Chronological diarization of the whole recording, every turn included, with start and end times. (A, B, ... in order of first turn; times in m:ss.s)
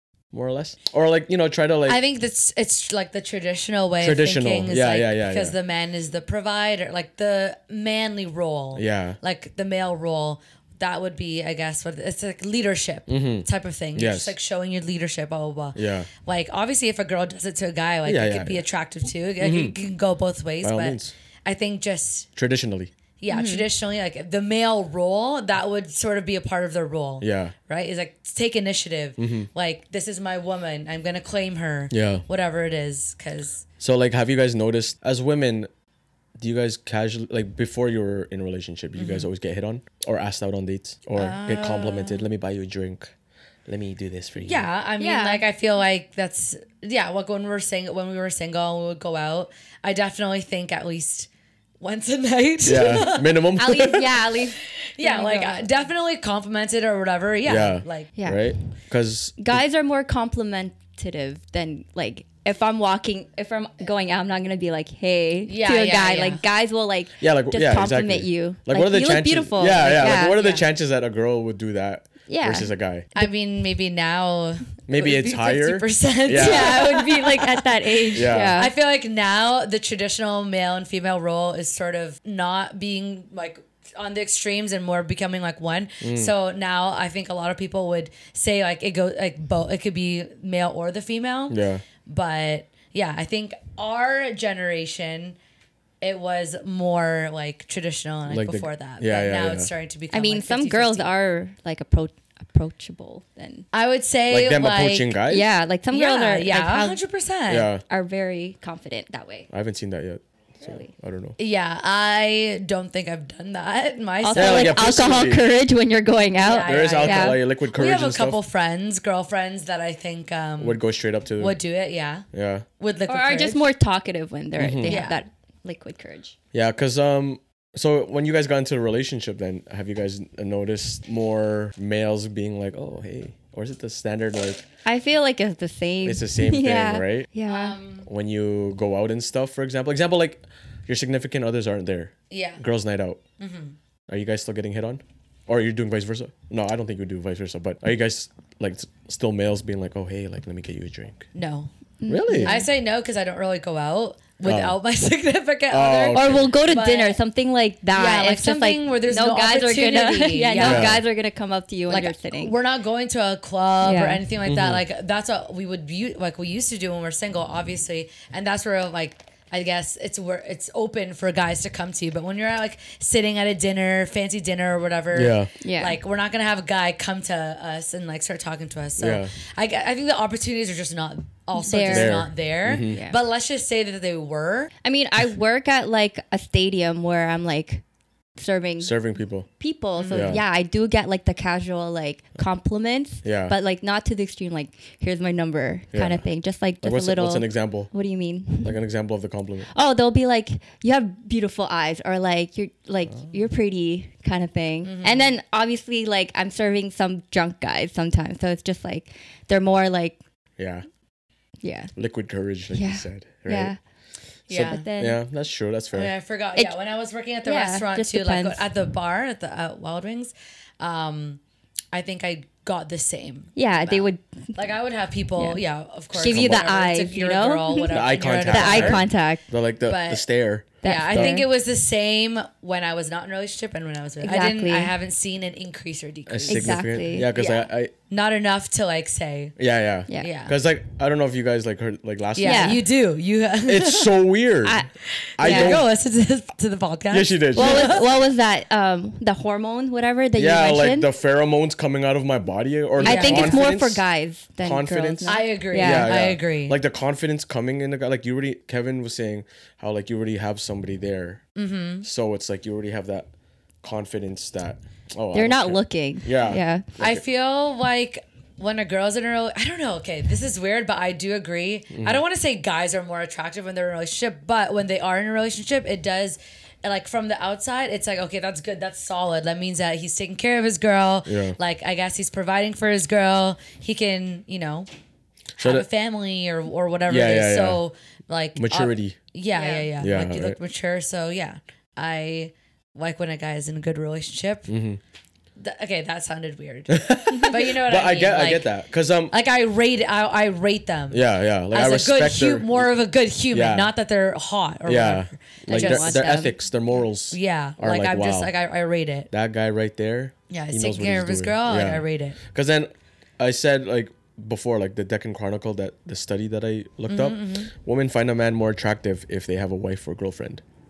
0:00.3-0:02.0 A
0:01.8-0:22.3 B
0:04.0-0:05.6 A
0:08.7-0:09.2 A
0:13.1-0:14.4 A
0:15.7-0:16.1 A
0:18.0-0:18.6 A
0:19.4-0:19.7 A
0:20.6-0:21.1 A
0:22.4-0:22.9 A
0:23.2-0:33.6 B
0:23.3-0:23.7 C
0:27.2-0:27.5 A
0:29.2-0:29.5 A
0:31.9-0:32.2 A
0:33.8-0:35.7 A
0:36.4-0:43.1 A
0:39.0-0:39.3 B
0:41.2-0:42.3 B
0:43.6-0:44.7 A
0:44.4-0:51.3 B
0:45.0-0:45.4 C
0:51.8-0:53.4 B
0:52.6-0:54.1 A
0:53.6-0:55.7 C
0:54.6-0:58.1 B
0:57.4-0:59.6 A
0:58.2-0:58.6 C
0:59.4-1:10.4 C
1:05.5-1:06.4 B
1:07.2-1:13.1 A
1:10.3-1:10.6 B
1:12.3-1:13.3 C
1:13.2-1:35.4 B
1:14.9-1:16.9 A
1:16.3-1:18.7 C
1:18.1-1:18.6 A
1:26.0-1:26.3 A
1:31.5-1:31.8 A
1:36.0-1:41.1 B
1:38.3-1:39.7 A
1:40.1-1:43.6 C
1:43.7-1:45.2 B
1:44.3-1:45.5 A
1:45.3-1:47.0 C
1:45.9-1:47.7 B
1:47.5-1:47.8 A
1:47.9-1:49.5 C
1:49.5-1:51.4 A
1:50.6-1:50.9 C
1:51.4-1:54.8 B
1:54.2-1:57.4 C
1:54.3-1:55.5 A
1:56.4-2:00.8 B
1:56.6-1:58.4 A
2:00.6-2:01.6 A
2:01.4-2:02.3 B
2:02.3-2:02.6 A
2:02.8-2:03.6 B
2:03.1-2:06.4 C
2:04.6-2:05.0 A
2:04.8-2:05.2 B
2:06.5-2:14.6 A
2:14.8-2:17.8 C
2:16.0-2:17.3 A
2:17.4-2:18.1 B
2:18.0-2:23.2 A
2:22.3-2:22.6 B
2:23.4-2:23.7 B
2:24.1-2:31.3 A
2:31.3-2:31.7 B
2:32.0-2:32.7 C
2:32.1-2:32.6 A
2:32.4-2:37.2 B
2:34.4-2:34.8 A
2:35.7-2:36.5 A
2:36.1-2:42.6 C
2:37.9-2:41.0 B
2:40.6-2:41.0 A
2:41.9-3:04.7 B
2:43.8-2:44.2 C
2:44.4-2:44.8 A
2:55.1-2:55.5 A
2:55.6-2:56.0 C
2:59.0-2:59.3 A
3:01.6-3:02.3 C
3:01.9-3:03.0 A
3:02.9-3:03.2 C
3:04.8-3:07.8 C
3:08.4-3:09.0 C
3:08.8-3:09.5 A
3:09.6-3:18.8 C
3:10.0-3:10.4 B
3:10.1-3:10.4 A
3:13.2-3:13.6 A
3:15.9-3:16.2 A
3:16.8-3:17.9 A
3:18.6-3:19.7 A
3:19.7-3:30.2 C
3:24.8-3:25.3 B
3:30.6-3:30.8 A
3:31.6-3:31.9 C
3:32.0-3:33.7 A
3:32.7-3:33.8 C
3:34.5-3:34.8 B
3:34.5-3:36.1 A
3:34.5-3:35.2 C
3:35.9-3:41.4 B
3:37.4-3:38.6 C
3:41.9-3:49.1 B
3:43.6-3:44.5 C
3:45.4-3:45.6 C
3:46.1-3:49.4 C
3:46.2-3:46.7 A
3:47.9-3:51.4 A
3:49.8-3:50.2 B
3:50.8-3:59.5 B
3:50.8-3:51.5 C
3:54.2-3:54.9 C
3:56.3-3:57.9 A
3:56.5-3:57.3 C
3:59.6-4:02.8 A
4:00.2-4:00.5 B
4:02.4-4:04.1 B
4:02.4-4:02.8 C
4:03.6-4:04.8 A
4:04.6-4:04.9 C
4:05.2-4:08.1 B
4:05.4-4:05.9 A
4:05.4-4:05.8 C
4:07.1-4:08.0 A
4:07.5-4:11.1 C
4:10.4-4:14.0 A
4:13.0-4:13.6 B
4:13.0-4:16.2 C
4:14.6-4:21.4 A
4:15.2-4:16.8 B
4:21.6-4:22.0 B
4:22.0-4:23.3 A
4:23.8-4:27.2 A
4:25.3-4:26.8 C
4:27.0-4:44.9 B
4:31.9-4:32.2 A
4:41.2-4:41.6 A
4:45.6-4:45.8 A
4:45.6-4:54.7 B
4:47.1-4:47.8 A
4:48.6-4:49.2 A
4:49.5-4:49.9 C
4:50.0-4:50.6 A
4:54.7-4:55.0 A
4:55.6-4:58.7 B
4:56.9-4:59.3 A
4:59.3-5:06.4 B
5:01.1-5:02.9 A
5:03.5-5:03.9 A
5:04.8-5:08.5 A
5:05.7-5:06.5 C
5:07.3-5:09.3 B
5:09.3-5:20.6 A
5:10.5-5:12.4 B
5:17.1-5:17.7 B